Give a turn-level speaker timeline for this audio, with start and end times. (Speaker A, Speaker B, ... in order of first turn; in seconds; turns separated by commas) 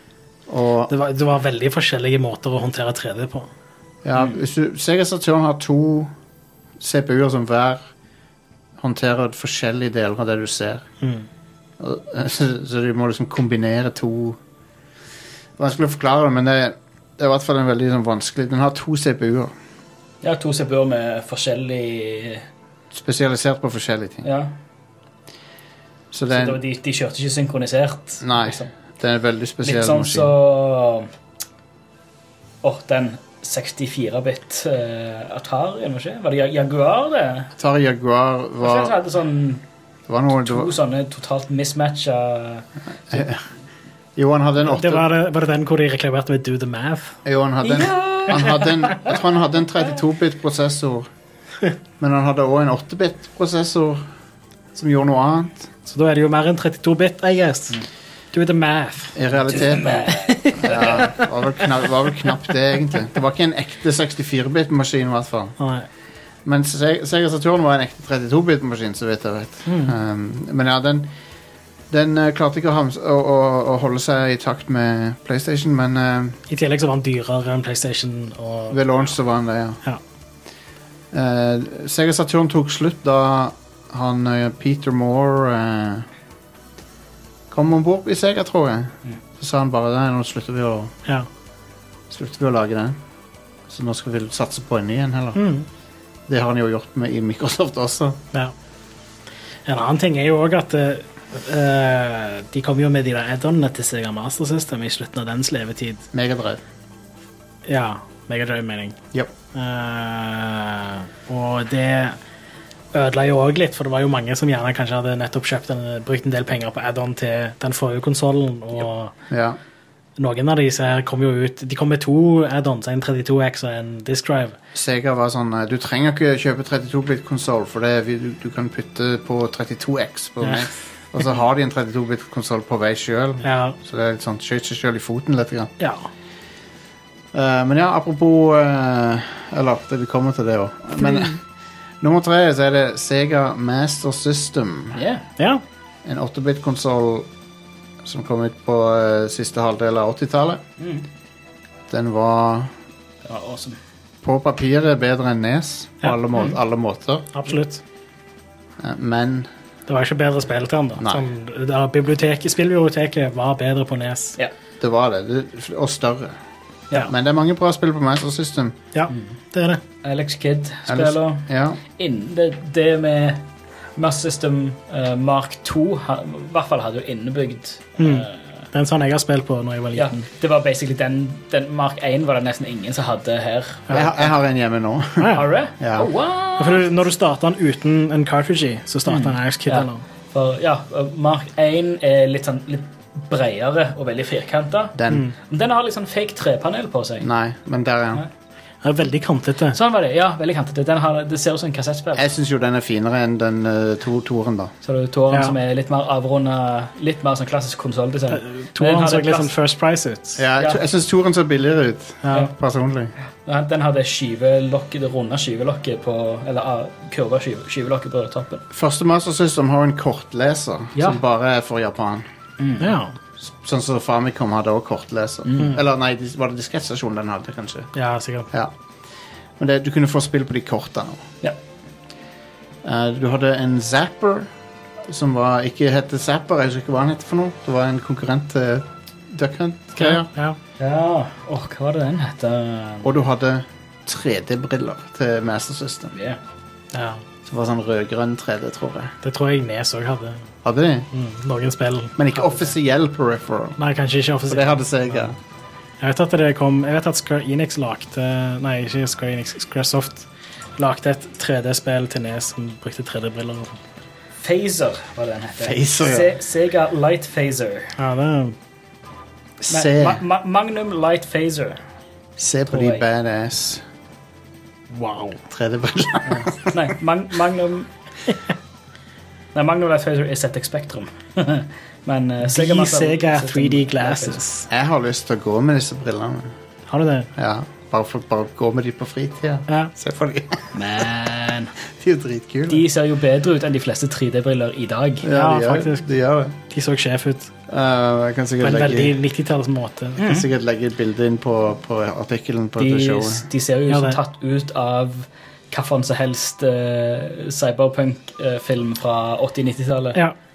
Speaker A: 0.5-0.9, Speaker B: 0.9-3.5, Speaker A: 4.0-6.1, Speaker A: 6.8-7.9, Speaker A: 8.8-10.8, Speaker B: 11.0-11.3, Speaker A: 11.8-14.4, Speaker A: 15.6-19.5, Speaker C: 20.2-22.5, Speaker A: 22.9-24.3, Speaker C: 24.2-24.5, Speaker A: 26.1-26.6, Speaker C: 26.3-28.7, Speaker A: 28.2-30.3, Speaker C: 29.6-31.1, Speaker C: 32.6-37.5, Speaker A: 37.6-39.0, Speaker C: 38.6-39.6, Speaker A: 40.1-40.7, Speaker C: 40.3-43.2, Speaker A: 43.1-43.4, Speaker A: 44.2-45.1, Speaker B: 44.6-47.2, Speaker A: 47.2-51.1, Speaker C: 47.6-49.1, Speaker A: 52.0-54.0, Speaker A: 54.8-55.7, Speaker B: 55.9-57.8, Speaker B: 58.3-59.2, Speaker A: 59.1-65.6, Speaker C: 59.5-61.0, Speaker B: 60.1-61.2, Speaker B: 65.6-65.9, Speaker A: 66.5-71.1, Speaker B: 69.7-70.0, Speaker A: 71.9-76.4, Speaker B: 76.5-78.8, Speaker A: 78.7-79.8, Speaker A: 81.1-86.1, Speaker A: 87.5-90.9, Speaker A: 92.1-93.0, Speaker A: 93.7-95.4, Speaker B: 95.3-95.7, Speaker A: 96.3-98.2, Speaker B: 99.7-106.0, Speaker A: 106.1-106.6, Speaker B: 107.7-109.0, Speaker B: 109.5-112.2, Speaker B: 112.9-119.1, Speaker A: 119.3-119.6, Speaker B: 120.2-124.6, Speaker A: 124.7-135.7, Speaker B: 133.4-133.8, Speaker B: 135.8-136.1, Speaker A: 137.3-141.4, Speaker A: 142.0-145.0, Speaker C: 144.9-145.3, Speaker B: 145.4-145.6, Speaker A: 146.1-147.3, Speaker A: 148.0-150.6, Speaker C: 150.8-151.1, Speaker A: 151.9-152.7, Speaker C: 153.2-153.8, Speaker A: 154.2-157.3, Speaker B: 157.3-157.8, Speaker A: 158.8-159.5, Speaker B: 159.9-164.4, Speaker A: 161.0-161.2, Speaker A: 164.8-166.4, Speaker A: 167.1-168.8, Speaker B: 168.9-169.8, Speaker C: 170.0-173.4, Speaker A: 170.9-171.8, Speaker C: 174.0-178.4, Speaker B: 178.0-180.2, Speaker C: 179.9-184.2, Speaker A: 183.9-186.1, Speaker B: 185.2-185.5, Speaker C: 185.3-186.9, Speaker B: 186.6-190.0, Speaker C: 189.1-197.3, Speaker A: 195.0-195.3, Speaker A: 197.2-198.2, Speaker B: 198.8-199.8, Speaker C: 199.7-202.3, Speaker A: 202.2-204.7, Speaker C: 204.8-209.5, Speaker B: 208.3-210.4, Speaker A: 210.4-213.1, Speaker B: 212.2-212.5, Speaker C: 213.4-218.6, Speaker A: 218.7-222.2, Speaker C: 222.6-222.9, Speaker B: 222.8-223.1, Speaker A: 223.4-227.9, Speaker C: 225.5-225.8, Speaker B: 227.9-228.5, Speaker A: 229.6-231.2, Speaker A: 232.8-234.5, Speaker A: 235.1-240.3, Speaker B: 240.0-240.6, Speaker C: 240.8-243.1, Speaker A: 243.0-246.1, Speaker C: 246.1-246.4, Speaker B: 246.9-247.2, Speaker A: 247.4-249.2, Speaker B: 249.2-250.5, Speaker A: 250.6-251.1, Speaker B: 251.1-252.7, Speaker A: 252.2-253.8, Speaker B: 253.8-255.3, Speaker A: 254.5-255.4, Speaker B: 256.0-263.8, Speaker C: 264.4-268.0, Speaker A: 265.6-266.4, Speaker B: 268.0-268.6, Speaker A: 269.6-270.2, Speaker C: 269.7-271.8, Speaker A: 272.4-273.8, Speaker C: 272.7-273.1, Speaker B: 274.9-275.4, Speaker A: 275.5-276.8, Speaker C: 276.3-277.9, Speaker C: 279.5-284.4, Speaker B: 282.4-284.7, Speaker A: 284.7-286.5, Speaker B: 286.9-287.3, Speaker A: 287.4-290.8, Speaker C: 290.7-291.7, Speaker A: 291.9-292.9, Speaker C: 292.7-295.3, Speaker A: 295.2-296.6, Speaker B: 295.3-296.1, Speaker B: 296.7-297.5, Speaker A: 297.7-299.2, Speaker B: 298.6-300.3, Speaker A: 300.2-303.4, Speaker C: 302.8-310.2, Speaker B: 303.9-304.2